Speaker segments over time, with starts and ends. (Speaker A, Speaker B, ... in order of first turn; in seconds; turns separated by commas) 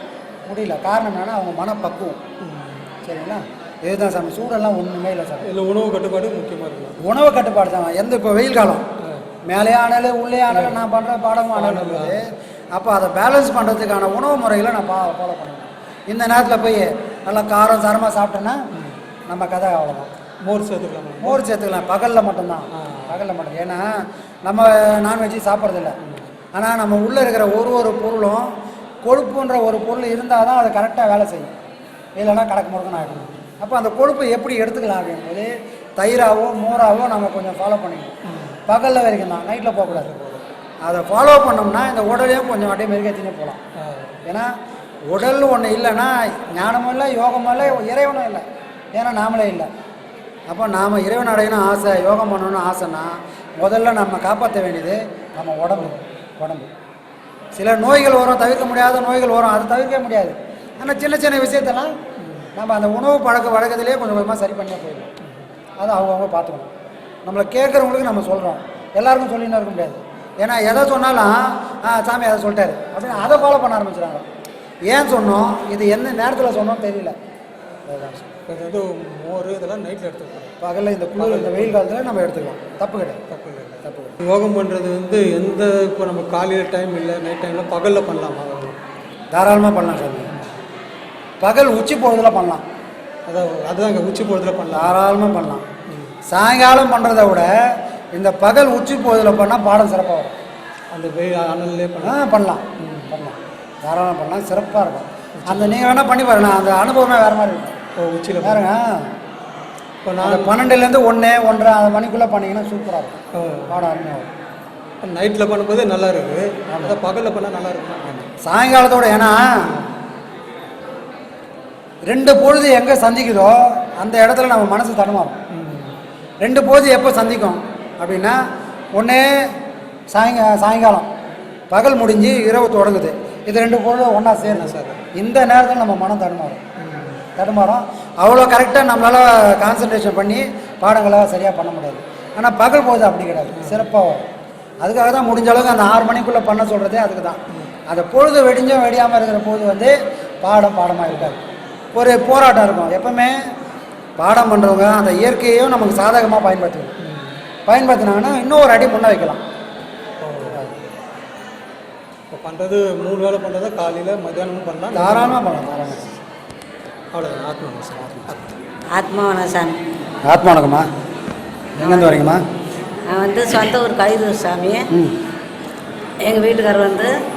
Speaker A: 0.5-2.2, Speaker B: 2.4-2.9, Speaker A: 3.0-5.5, Speaker B: 5.4-7.0, Speaker A: 7.0-8.8, Speaker B: 9.0-9.3, Speaker A: 9.4-18.6, Speaker B: 10.5-10.8, Speaker B: 11.5-12.2, Speaker A: 19.3-20.1, Speaker B: 20.4-21.4, Speaker A: 21.2-26.0, Speaker B: 22.7-23.2, Speaker A: 26.5-28.5, Speaker A: 29.0-31.5, Speaker A: 32.2-40.1, Speaker B: 33.0-33.3, Speaker B: 38.3-38.6, Speaker B: 39.9-40.5, Speaker A: 40.8-43.6, Speaker B: 43.8-44.2, Speaker A: 44.2-44.5, Speaker A: 45.0-49.7, Speaker A: 50.5-56.7, Speaker A: 57.5-61.9, Speaker B: 62.2-62.5, Speaker A: 62.5-65.1, Speaker A: 65.8-66.7, Speaker A: 67.2-74.2, Speaker B: 73.1-73.4, Speaker A: 74.9-77.2, Speaker A: 77.9-78.3, Speaker B: 78.5-80.5, Speaker A: 80.6-83.2, Speaker B: 81.2-81.8, Speaker B: 83.3-88.8, Speaker A: 83.8-84.2, Speaker A: 89.3-90.3, Speaker A: 91.4-92.6, Speaker B: 93.2-95.0, Speaker A: 94.7-95.7, Speaker A: 96.3-100.3, Speaker B: 100.9-102.2, Speaker A: 102.0-107.8, Speaker B: 102.8-103.1, Speaker B: 105.4-105.8, Speaker B: 108.0-108.7, Speaker A: 108.4-109.1, Speaker B: 110.0-110.5, Speaker A: 110.2-114.3, Speaker B: 113.3-113.8, Speaker B: 115.0-118.3, Speaker A: 116.7-117.0, Speaker A: 118.2-119.7, Speaker A: 122.0-125.4, Speaker B: 125.5-126.0, Speaker A: 126.4-128.4, Speaker A: 128.9-129.5, Speaker A: 130.1-131.1, Speaker A: 131.7-136.6, Speaker B: 134.5-135.0, Speaker B: 136.8-137.2, Speaker A: 137.3-144.2, Speaker A: 144.8-153.4, Speaker A: 154.2-156.9, Speaker B: 157.0-157.4, Speaker A: 157.7-159.4, Speaker B: 160.2-160.7, Speaker B: 162.3-165.4, Speaker A: 164.9-166.1, Speaker B: 167.1-168.5, Speaker A: 168.0-168.3, Speaker C: 168.9-169.8, Speaker A: 170.2-170.9, Speaker A: 171.8-172.4, Speaker C: 171.8-172.2, Speaker C: 173.1-174.8, Speaker A: 174.9-175.2, Speaker C: 176.2-177.1